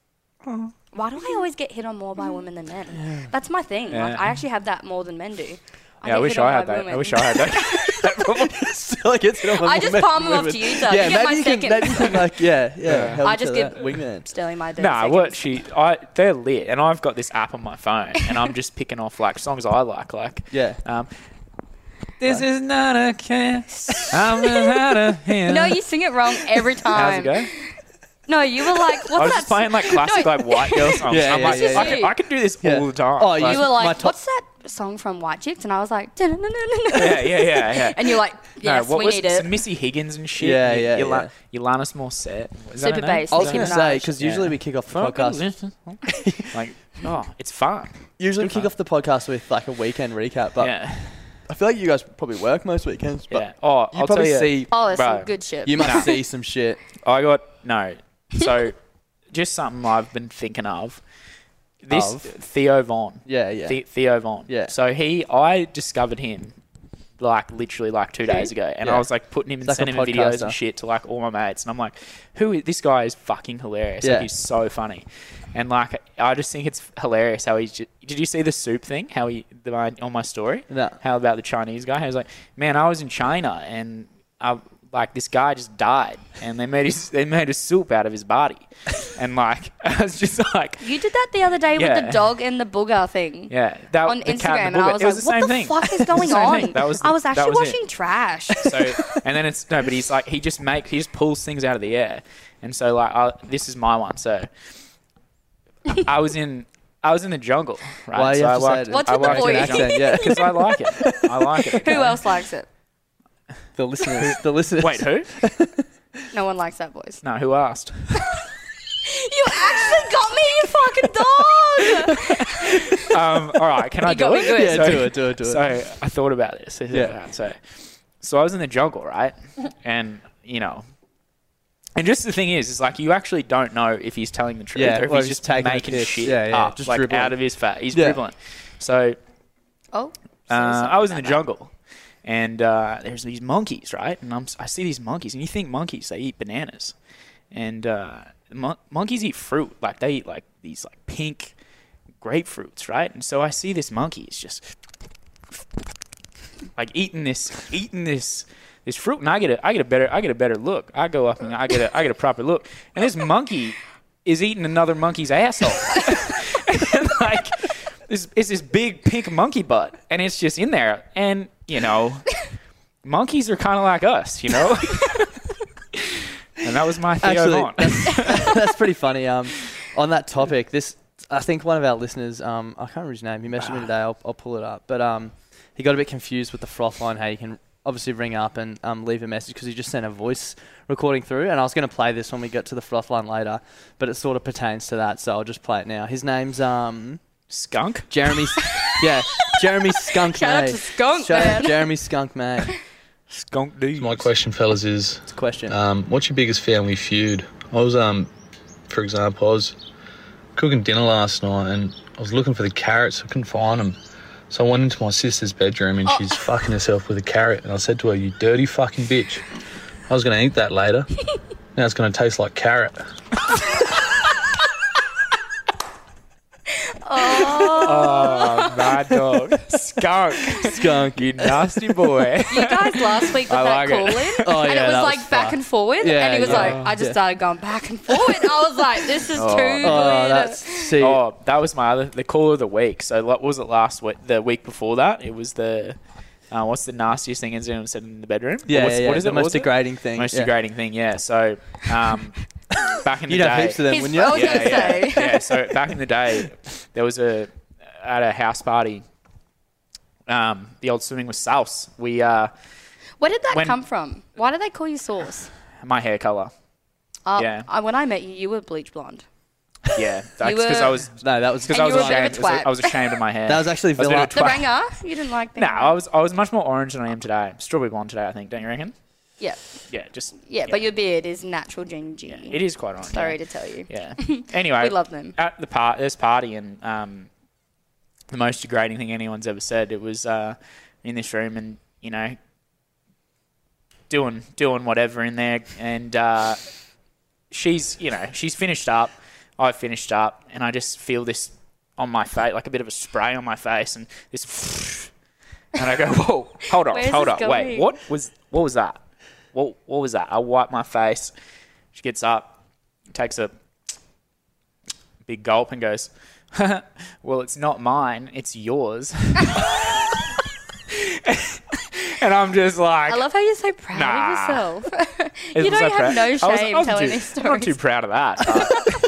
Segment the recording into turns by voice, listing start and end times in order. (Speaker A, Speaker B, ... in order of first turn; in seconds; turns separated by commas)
Speaker A: 0.5-0.7, Speaker B: 0.9-8.1, Speaker C: 3.0-3.3, Speaker A: 3.9-4.4, Speaker A: 6.0-8.6, Speaker C: 8.5-14.3, Speaker B: 9.6-12.3, Speaker A: 12.9-13.2, Speaker B: 13.2-15.4, Speaker A: 14.8-21.1, Speaker C: 20.5-20.8, Speaker A: 22.2-25.8, Speaker B: 25.5-27.5, Speaker A: 26.9-27.5, Speaker B: 28.3-32.1, Speaker A: 29.1-33.9, Speaker C: 31.1-32.0, Speaker C: 32.6-34.1, Speaker B: 33.4-39.5, Speaker A: 36.9-48.7, Speaker C: 40.4-41.3, Speaker B: 42.8-44.1, Speaker C: 43.3-45.4, Speaker C: 46.1-46.5, Speaker C: 48.2-50.7, Speaker A: 50.6-51.4, Speaker C: 51.5-54.7, Speaker A: 53.3-56.1, Speaker B: 54.7-56.1, Speaker C: 55.6-56.8, Speaker A: 57.0-58.8, Speaker A: 59.3-61.0, Speaker A: 61.8-66.6, Speaker C: 61.9-62.3, Speaker C: 63.3-63.8, Speaker C: 64.5-64.7, Speaker A: 67.2-90.8, Speaker C: 69.6-70.6, Speaker C: 74.0-74.3, Speaker C: 80.7-81.0, Speaker B: 90.8-93.5, Speaker A: 91.8-92.3, Speaker A: 93.5-97.8, Speaker B: 94.0-99.0, Speaker A: 98.5-104.5, Speaker A: 106.0-112.2, Speaker C: 108.1-111.3, Speaker B: 108.9-110.4, Speaker B: 111.8-112.7, Speaker C: 113.8-115.8, Speaker A: 114.8-115.3, Speaker B: 116.3-117.2, Speaker A: 117.2-118.2, Speaker B: 119.1-122.8, Speaker A: 123.1-130.9, Speaker B: 124.0-125.0, Speaker C: 124.5-125.6, Speaker A: 132.0-139.2, Speaker C: 134.8-137.3, Speaker C: 137.9-138.2, Speaker B: 139.9-141.4, Speaker A: 140.5-141.7, Speaker A: 142.2-146.9, Speaker A: 147.5-151.5, Speaker A: 152.2-154.6, Speaker A: 156.8-172.3, Speaker A: 173.0-175.3, Speaker A: 176.6-178.6, Speaker C: 177.2-197.2, Speaker A: 197.5-198.1, Speaker C: 198.1-202.7, Speaker B: 198.7-198.9, Speaker B: 200.3-201.8, Speaker A: 203.3-204.2, Speaker D: 204.0-208.3, Speaker C: 205.3-205.8, Speaker D: 208.9-209.8, Speaker D: 210.6-214.0, Speaker D: 214.5-219.4, Speaker D: 220.1-221.1, Speaker D: 221.8-223.1, Speaker B: 227.0-228.7, Speaker A: 227.7-234.4, Speaker C: 230.6-231.5, Speaker B: 232.5-240.9, Speaker C: 234.4-237.2, Speaker A: 236.4-236.9, Speaker A: 239.3-240.1, Speaker C: 239.8-241.2, Speaker A: 241.0-246.0, Speaker A: 246.5-252.4, Speaker C: 248.7-250.5, Speaker A: 253.0-259.0, Speaker C: 253.3-255.0, Speaker B: 253.9-255.4, Speaker A: 260.3-262.5, Speaker B: 263.2-265.5, Speaker A: 263.5-263.8, Speaker A: 265.8-266.5, Speaker B: 267.3-269.2, Speaker A: 267.4-267.7, Speaker A: 269.9-271.1, Speaker B: 270.4-271.0, Speaker C: 271.2-272.3, Speaker B: 271.7-272.9, Speaker A: 271.7-274.7, Speaker C: 273.5-274.4, Speaker B: 274.3-275.9, Speaker A: 275.6-278.9, Speaker B: 279.4-279.8, Speaker A: 279.9-280.8, Speaker B: 280.4-285.4, Speaker A: 282.3-287.3, Speaker A: 288.3-292.4, Speaker A: 294.1-296.6, Speaker A: 297.5-305.1, Speaker A: 305.8-309.0, Speaker B: 306.9-307.9, Speaker A: 309.5-311.3, Speaker A: 311.9-312.6, Speaker A: 313.1-313.5, Speaker A: 315.3-320.2, Speaker A: 320.9-323.2, Speaker B: 323.1-327.7, Speaker A: 323.9-324.7, Speaker A: 325.6-328.9